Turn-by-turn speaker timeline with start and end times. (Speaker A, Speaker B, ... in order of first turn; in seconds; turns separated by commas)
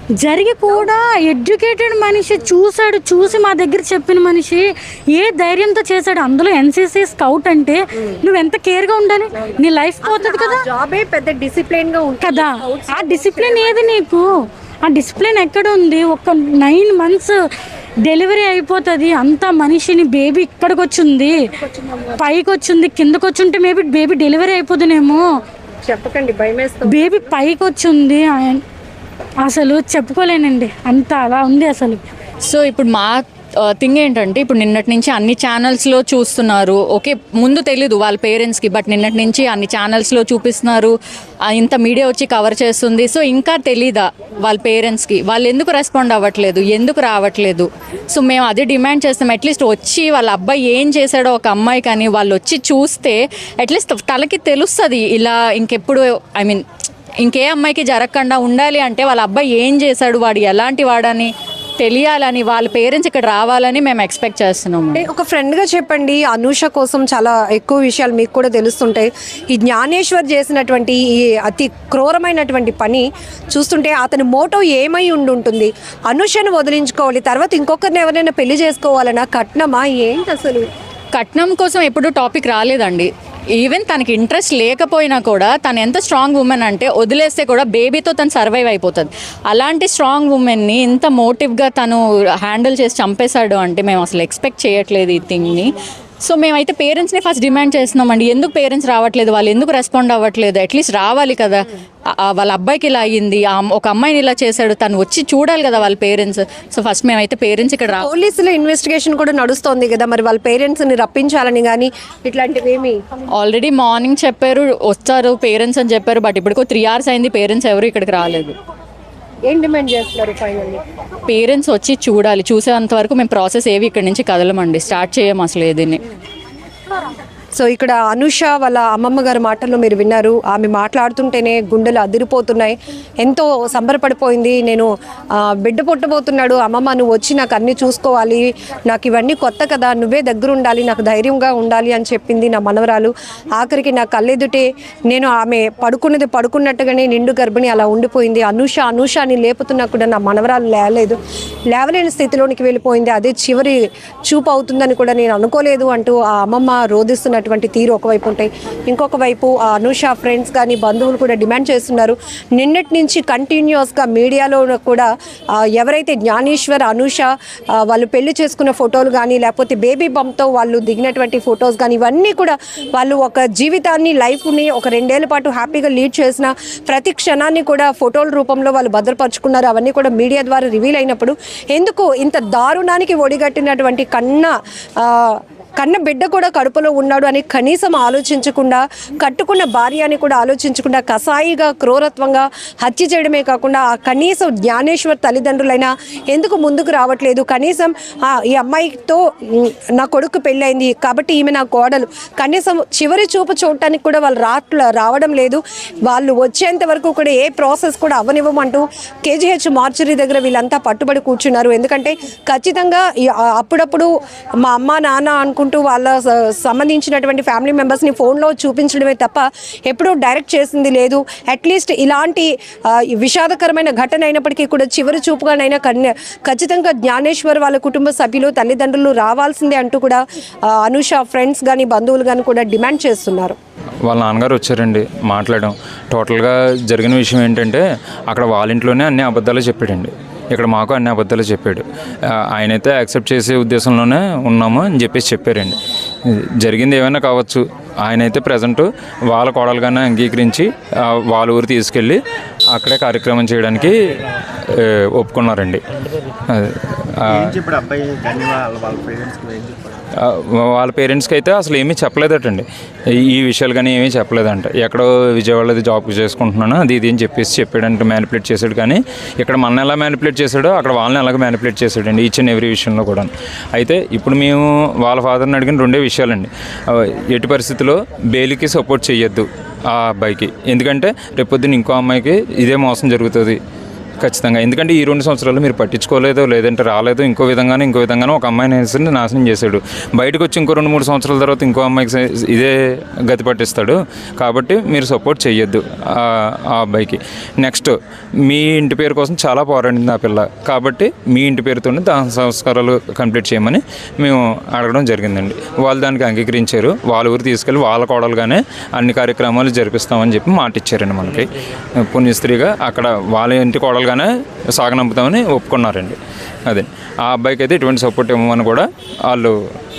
Speaker A: 0.2-10.6, Speaker B: 9.4-13.9, Speaker A: 12.2-17.3, Speaker A: 18.0-21.3, Speaker B: 21.6-22.2, Speaker A: 22.2-25.2, Speaker B: 25.8-27.3, Speaker A: 26.9-28.6, Speaker A: 29.4-32.0, Speaker C: 32.5-40.9, Speaker C: 41.5-56.6, Speaker C: 57.2-65.0, Speaker B: 64.9-80.7, Speaker C: 81.1-95.7, Speaker C: 96.2-108.1, Speaker B: 108.0-113.0, Speaker C: 113.4-118.5, Speaker B: 119.5-120.8, Speaker C: 121.3-126.0, Speaker B: 127.5-134.9, Speaker B: 135.4-151.2, Speaker B: 151.7-153.8, Speaker B: 154.3-165.1, Speaker B: 165.6-167.3, Speaker B: 167.8-214.1, Speaker B: 214.6-233.6, Speaker D: 234.0-252.2, Speaker D: 252.7-253.9, Speaker D: 254.8-255.8, Speaker D: 256.5-257.6, Speaker E: 257.4-260.0, Speaker D: 260.2-283.6, Speaker D: 284.2-292.7, Speaker D: 293.3-297.9, Speaker D: 298.5-316.1, Speaker D: 316.7-319.5